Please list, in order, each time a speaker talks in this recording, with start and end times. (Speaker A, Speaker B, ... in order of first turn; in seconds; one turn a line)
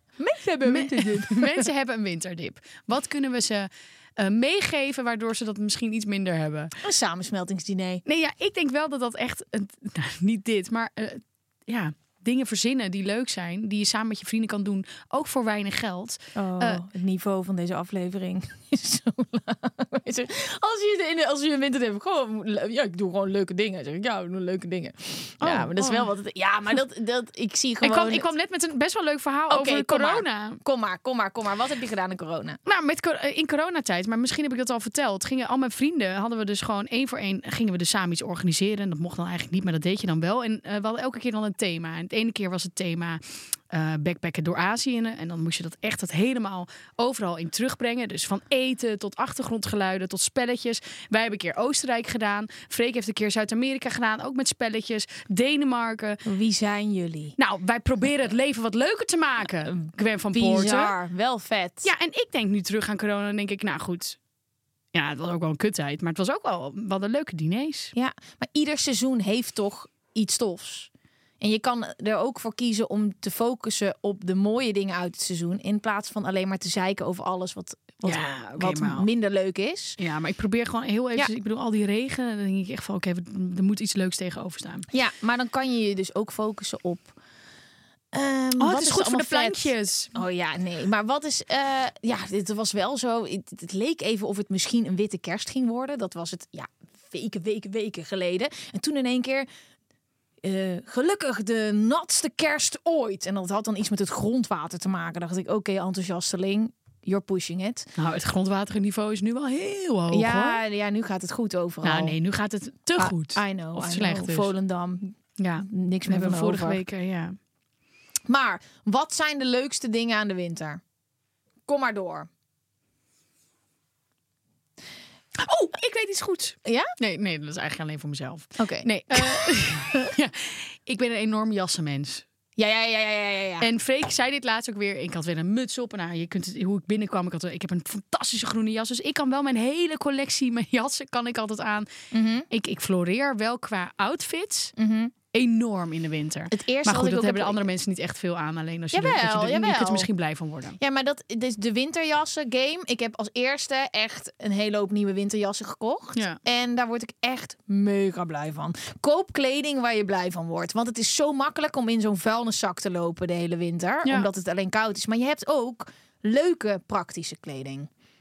Speaker A: 0.2-1.7
Speaker B: 0.6-6.7
Speaker A: 6.8-8.0
Speaker B: 8.1-16.8
Speaker A: 16.4-28.3
Speaker B: 25.4-26.1
Speaker B: 27.8-30.6
Speaker A: 29.5-32.6
Speaker B: 32.6-56.2
Speaker A: 56.2-57.4
Speaker B: 57.4-60.9
Speaker A: 60.3-61.9
Speaker B: 61.8-64.2
Speaker B: 64.9-67.9
Speaker A: 67.9-80.0
Speaker B: 78.0-79.1
Speaker B: 80.0-84.9
Speaker A: 84.9-87.1
Speaker A: 88.1-99.5
Speaker B: 88.6-90.1
Speaker A: 100.4-107.9
Speaker B: 108.0-110.6
Speaker A: 110.1-112.2
Speaker B: 111.8-114.5
Speaker A: 113.0-116.8
Speaker B: 115.4-117.3
Speaker A: 118.3-120.8
Speaker A: 121.7-122.3
Speaker B: 125.4-132.2
Speaker A: 126.6-126.9
Speaker A: 128.6-130.1
Speaker A: 132.6-133.7
Speaker B: 133.6-141.9
Speaker A: 142.1-142.5
Speaker B: 142.5-144.7
Speaker A: 144.8-145.1
Speaker B: 145.3-150.8
Speaker A: 146.5-147.6
Speaker A: 148.9-150.1
Speaker A: 150.8-167.9
Speaker B: 164.0-164.3